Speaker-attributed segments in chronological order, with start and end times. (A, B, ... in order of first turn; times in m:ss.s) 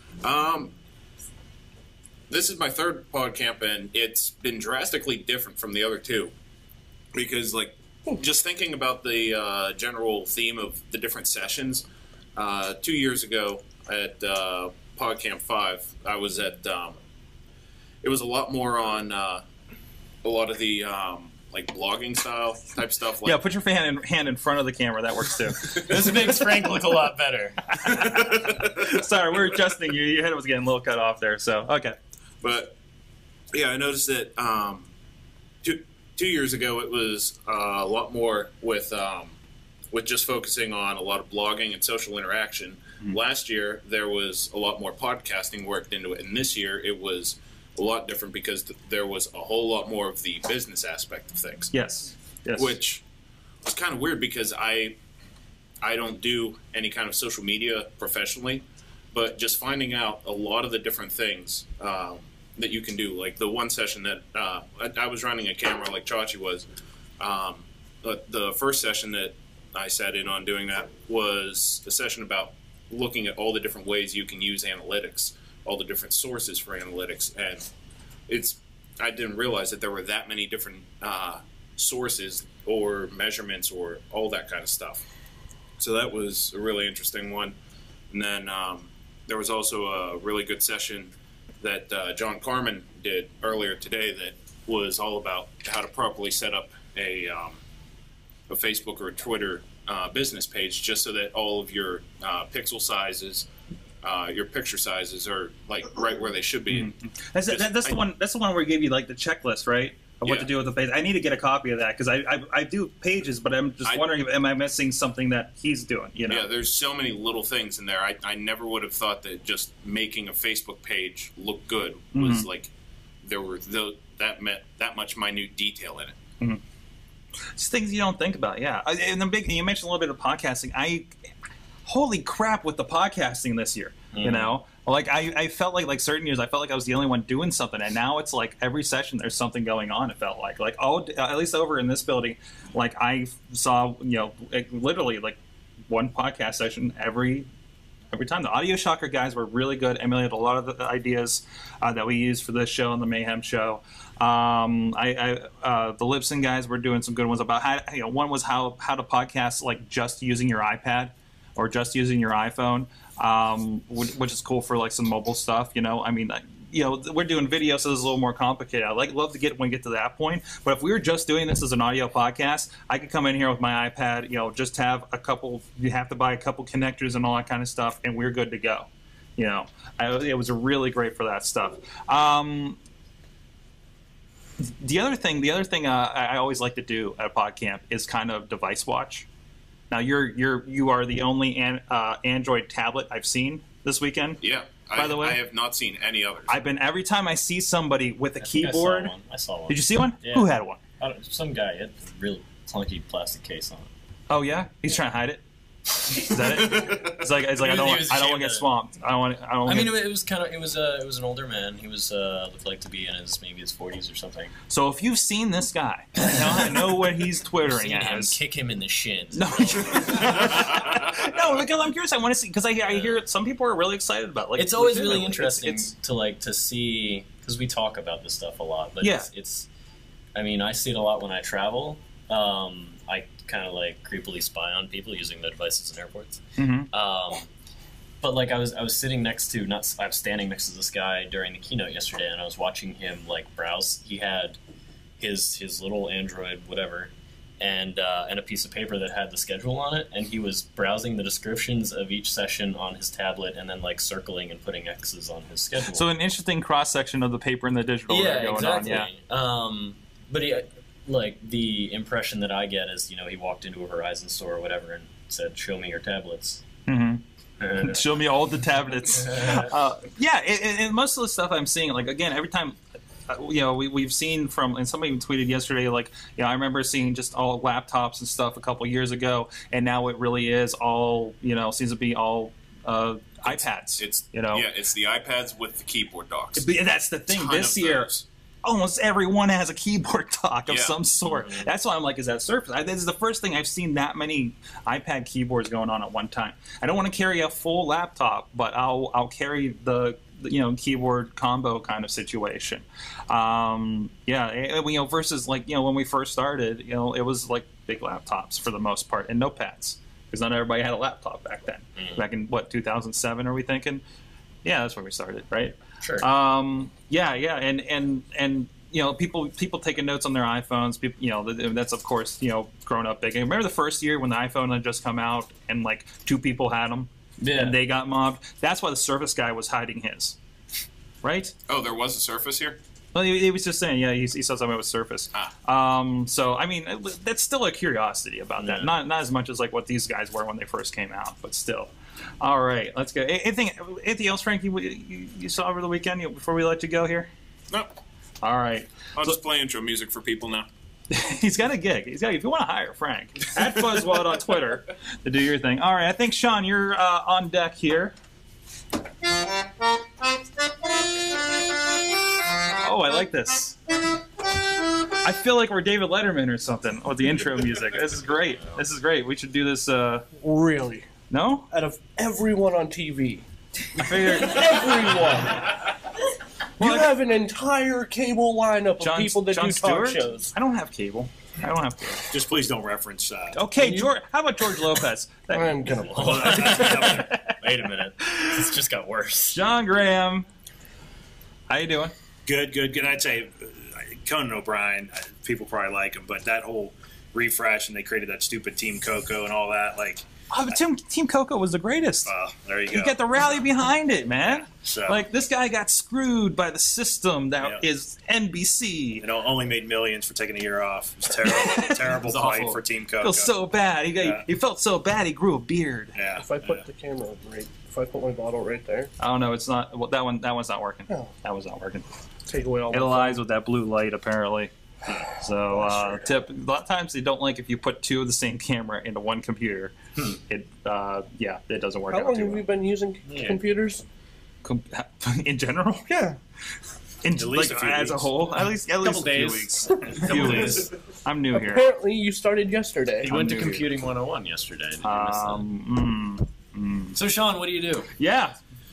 0:00.2-0:00.7 A
0:02.3-0:06.3 A
0:07.1-0:11.8 A
0:12.4-0:17.0 A
0:18.0-0:19.4 A
0:20.2-0:23.4 A
0:23.2-0:26.3 B
0:25.8-0:27.6 C
0:25.8-0:26.5 A
0:27.8-0:32.0 B
0:27.8-0:28.8 A
0:32.4-0:32.7 A
0:33.5-0:34.9 A
0:35.6-0:39.3 A
0:39.9-0:51.7 A
0:51.7-0:52.8 B
0:52.6-0:53.0 A
0:53.6-0:55.0 A
0:55.8-1:06.6 A
1:07.2-1:17.7 A
1:18.3-1:25.0 A
1:25.8-1:27.5 A
1:28.1-1:37.6 A
1:38.5-1:43.5 A
1:44.0-1:46.9 A
1:46.7-1:56.4 B
1:47.5-1:48.0 A
1:56.3-2:02.7 A
2:02.1-2:02.5 B
2:03.2-2:06.2 A
2:07.6-2:11.1 B
2:11.8-2:25.4 B
2:14.1-2:14.5 C
2:25.9-2:27.5 B
2:28.1-3:02.8 B
3:04.6-3:09.2 B
3:09.9-3:14.4 B
3:14.4-3:16.5 A
3:14.9-3:15.4 B
3:16.5-3:19.1 B
3:18.4-3:23.9 C
3:19.7-3:20.8 B
3:24.3-3:25.4 B
3:26.0-3:30.0 B
3:27.5-3:28.7 C
3:29.6-3:34.5 C
3:34.7-3:38.4 B
3:36.2-3:36.7 C
3:37.6-3:40.8 C
3:39.3-3:45.9 B
3:44.6-3:49.7 C
3:49.0-3:49.3 B
3:50.3-3:57.5 C
3:56.6-3:56.9 B
3:58.2-4:04.6 C
4:05.2-4:16.1 C
4:15.8-4:19.1 B
4:18.1-4:26.6 C
4:26.9-4:27.2 B
4:27.6-4:28.1 C
4:27.8-4:44.7 B
4:29.1-4:29.7 C
4:43.5-4:46.7 A
4:46.6-4:48.1 B
4:47.3-4:48.2 A
4:48.6-5:14.0 B
4:50.7-4:51.0 A
4:51.3-4:51.7 C
5:12.0-5:12.2 C
5:14.6-5:30.4 B
5:16.0-5:16.3 C
5:27.4-5:27.8 C
5:31.2-5:31.5 B
5:31.7-5:32.8 A
5:33.1-5:47.3 B
5:38.6-5:38.9 C
5:48.4-5:49.4 B
5:49.2-5:50.7 A
5:51.1-5:58.1 B
6:02.8-6:03.8 B
6:05.2-6:10.3 B
6:10.4-6:11.1 D
6:11.3-6:11.7 B
6:11.7-6:13.4 D
6:13.9-6:15.0 B
6:14.0-6:15.8 D
6:16.8-6:17.2 B
6:16.8-6:20.5 D
6:19.0-6:22.3 B
6:22.3-6:23.6 E
6:23.5-6:27.6 B
6:23.8-6:24.1 D
6:25.5-6:26.8 D
6:26.1-6:29.6 C
6:26.2-6:27.3 E
6:28.2-6:28.7 B
6:29.5-6:30.5 B
6:31.7-6:32.1 B
6:32.4-6:40.2 E
6:40.5-6:42.3 B
6:42.2-6:43.6 E
6:42.9-6:49.2 B
6:44.5-6:45.2 E
6:49.2-6:53.5 E
6:51.4-6:56.1 B
6:52.3-6:52.7 C
6:54.2-6:54.4 E
6:56.1-6:56.8 E
6:56.4-6:59.1 D
6:59.2-7:02.1 B
7:02.5-7:03.4 D
7:02.9-7:04.7 B
7:05.4-7:12.6 B
7:05.8-7:06.2 C
7:12.1-7:14.0 D
7:13.2-7:13.6 C
7:14.6-7:16.2 B
7:16.1-7:16.4 D
7:17.2-7:21.9 B
7:17.4-7:18.4 E
7:19.0-7:20.9 C
7:21.5-7:23.3 D
7:23.2-7:23.9 B
7:23.2-7:25.6 C
7:25.0-7:27.2 B
7:27.1-7:28.1 C
7:28.2-7:28.6 B